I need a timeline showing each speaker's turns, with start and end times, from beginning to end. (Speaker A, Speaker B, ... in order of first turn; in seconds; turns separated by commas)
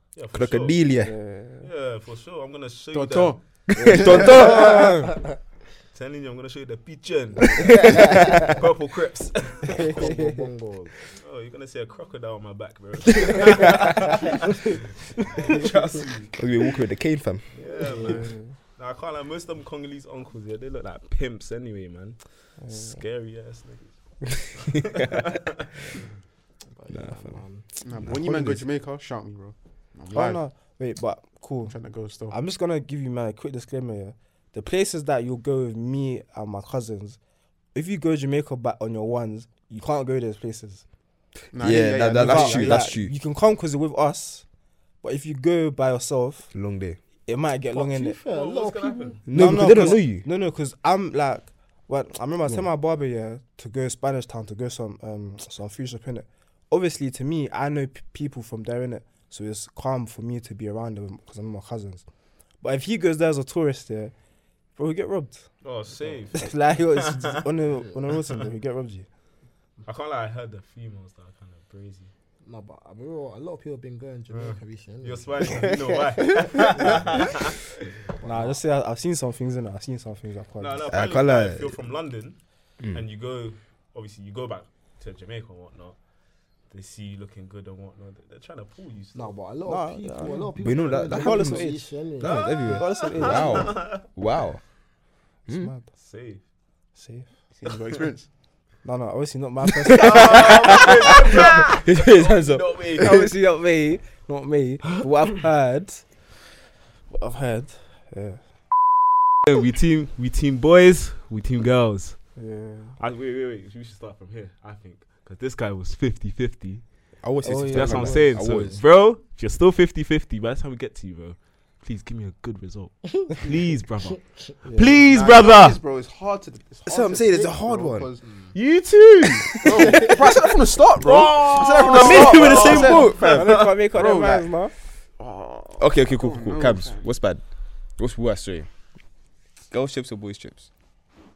Speaker A: 0.1-0.9, Speaker B: 0.3-1.2, Speaker C: 1.0-1.7, Speaker A: 1.6-3.4, Speaker D: 2.9-4.7, Speaker B: 3.7-4.9, Speaker C: 3.8-5.2, Speaker E: 4.2-5.2, Speaker A: 5.9-10.1, Speaker B: 7.6-8.4, Speaker C: 7.7-8.5, Speaker E: 8.0-8.5, Speaker C: 9.7-10.5, Speaker E: 9.8-11.0, Speaker A: 11.2-16.3, Speaker C: 13.7-14.1, Speaker B: 16.4-17.5, Speaker A: 17.6-26.0, Speaker E: 17.6-18.3, Speaker C: 18.0-18.5, Speaker C: 22.6-23.0, Speaker B: 24.6-25.3, Speaker E: 26.7-27.7, Speaker B: 26.9-27.4, Speaker D: 27.8-30.4, Speaker B: 28.0-28.6, Speaker C: 30.1-31.8, Speaker D: 31.6-32.4, Speaker C: 32.3-37.2, Speaker C: 37.7-40.9, Speaker D: 41.5-42.9, Speaker B: 41.5-43.1, Speaker C: 42.1-44.5, Speaker C: 45.0-46.5, Speaker B: 46.5-47.0, Speaker C: 47.3-48.2, Speaker E: 47.7-50.0, Speaker A: 48.3-49.2, Speaker B: 49.3-50.3, Speaker C: 49.3-62.0, Speaker C: 62.6-64.1, Speaker C: 64.8-65.5, Speaker A: 65.6-67.4, Speaker E: 66.0-66.3, Speaker C: 66.3-69.1, Speaker E: 67.7-68.0, Speaker A: 69.8-72.1, Speaker E: 72.4-75.7, Speaker A: 74.3-77.9, Speaker C: 75.5-75.8, Speaker E: 78.1-78.6, Speaker C: 78.2-81.0, Speaker A: 80.6-82.4, Speaker B: 80.9-81.8, Speaker B: 82.8-83.0, Speaker A: 82.9-86.0, Speaker A: 86.7-89.4, Speaker E: 89.2-92.5, Speaker C: 89.7-93.8, Speaker B: 90.6-94.6, Speaker A: 92.2-94.0, Speaker C: 95.5-95.9, Speaker A: 96.0-96.4, Speaker C: 97.0-97.6, Speaker D: 97.6-98.3, Speaker C: 98.8-101.5, Speaker B: 99.8-103.0, Speaker A: 99.9-103.3, Speaker C: 103.0-106.3, Speaker C: 107.1-108.7, Speaker A: 109.4-112.3, Speaker C: 112.4-113.0, Speaker A: 113.0-116.8, Speaker B: 117.2-118.8, Speaker C: 117.4-118.6, Speaker A: 117.7-125.8, Speaker C: 124.7-125.0, Speaker D: 125.0-128.3, Speaker B: 126.9-128.1, Speaker E: 128.2-128.6, Speaker A: 128.6-129.6, Speaker D: 129.3-134.6, Speaker C: 129.5-130.2, Speaker B: 129.8-130.5, Speaker E: 131.1-132.5, Speaker B: 131.1-133.5, Speaker C: 131.7-134.7, Speaker A: 132.3-133.7, Speaker D: 135.2-137.1, Speaker B: 135.8-137.4, Speaker B: 138.0-138.7, Speaker B: 139.7-140.7